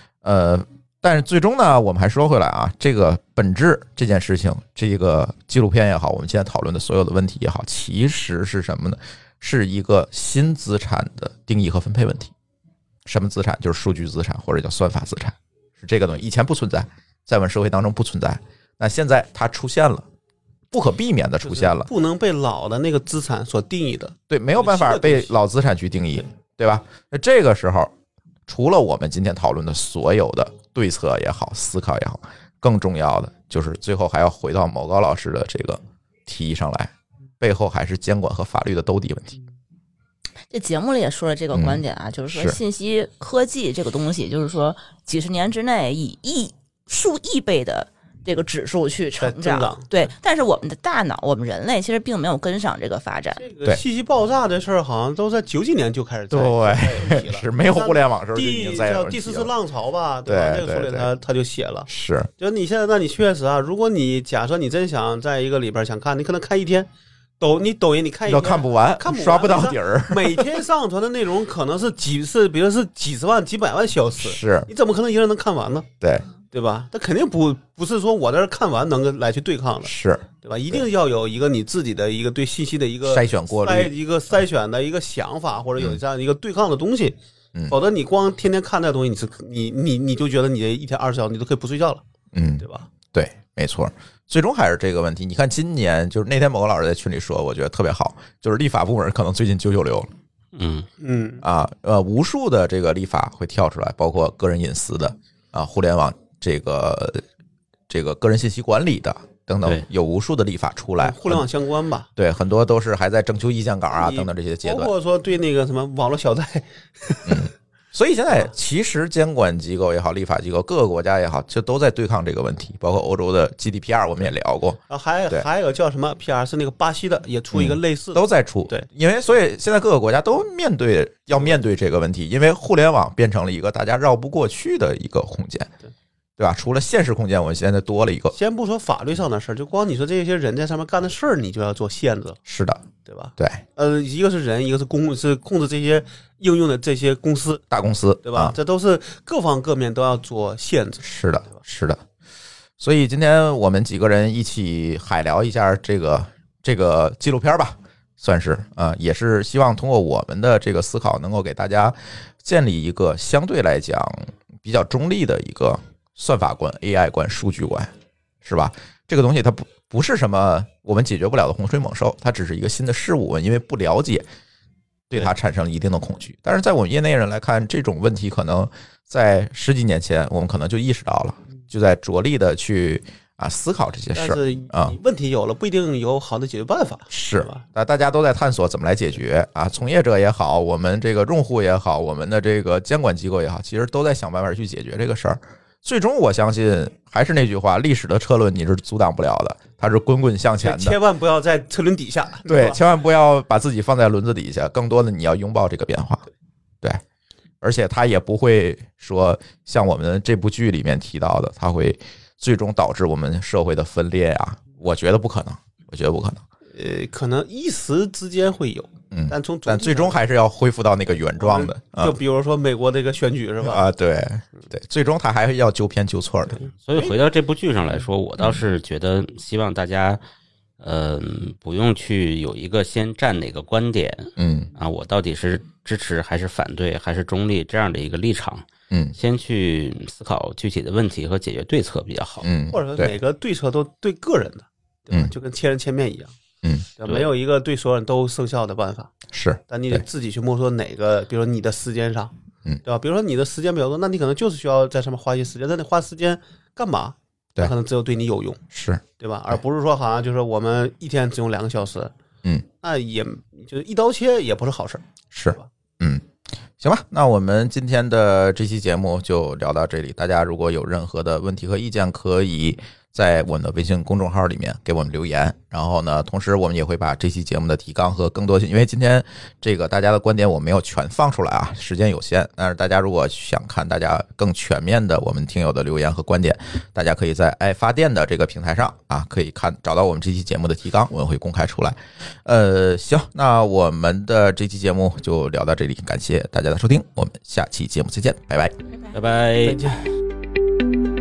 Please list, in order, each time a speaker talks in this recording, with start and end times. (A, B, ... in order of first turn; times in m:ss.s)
0:00.2-0:12.3 A
0:13.0-0:20.0 A
0:20.7-0:21.9 A
0:21.4-0:25.3 B
0:24.3-0:27.9 A
0:28.5-0:39.4 A
0:40.5-0:53.4 C
0:41.5-0:42.6 A
0:49.2-0:50.1 B
0:53.4-1:01.9 B
0:56.3-0:59.5 A
1:00.2-1:01.1 A
1:01.9-1:02.3 A
1:02.4-1:15.9 B
1:08.2-1:10.6 A
1:14.2-1:14.7 A
1:16.0-1:16.3 A
1:16.5-1:27.2 B
1:19.8-1:20.8 A
1:23.0-1:23.9 A
1:27.7-1:32.0 B
1:32.3-1:40.1 A
1:32.6-1:32.9 B
1:40.6-1:40.9 D
1:41.0-1:41.4 B
1:41.4-1:47.2 A
1:47.9-1:51.4 A
1:51.0-1:52.1 B
1:52.2-1:54.9 A
1:53.9-1:57.5 B
1:57.3-2:05.4 A
2:04.9-2:08.8 B
2:07.5-2:15.7 A
2:16.4-2:18.4 A
2:18.3-2:22.4 B
2:22.5-2:22.8 A
2:23.0-2:27.6 B
2:23.4-2:23.6 A
2:27.7-2:28.6 A
2:28.2-2:31.1 B
2:31.0-2:32.0 A
2:32.8-2:47.9 A
2:48.4-2:54.3 A
2:55.1-3:05.0 A
3:04.1-3:07.6 B
3:07.1-3:21.0 A
3:20.6-3:22.8 B
3:22.4-3:26.2 A
3:27.6-3:36.4 A
3:36.7-3:40.2 B
3:39.1-3:42.2 A
3:41.4-3:43.8 B
3:43.6-3:46.7 A
3:46.8-3:50.2 D
3:50.8-4:02.5 D
3:54.4-3:54.7 A
4:02.4-4:03.1 A
4:02.7-4:06.3 B
4:07.0-4:09.1 B
4:07.0-4:07.3 D
4:09.3-4:10.0 A
4:09.7-4:12.3 B
4:12.8-4:18.6 B
4:18.7-4:19.6 A
4:19.2-4:22.1 B
4:22.8-4:25.7 B
4:25.3-4:26.3 A
4:26.8-4:58.8 A
4:59.1-5:00.0 D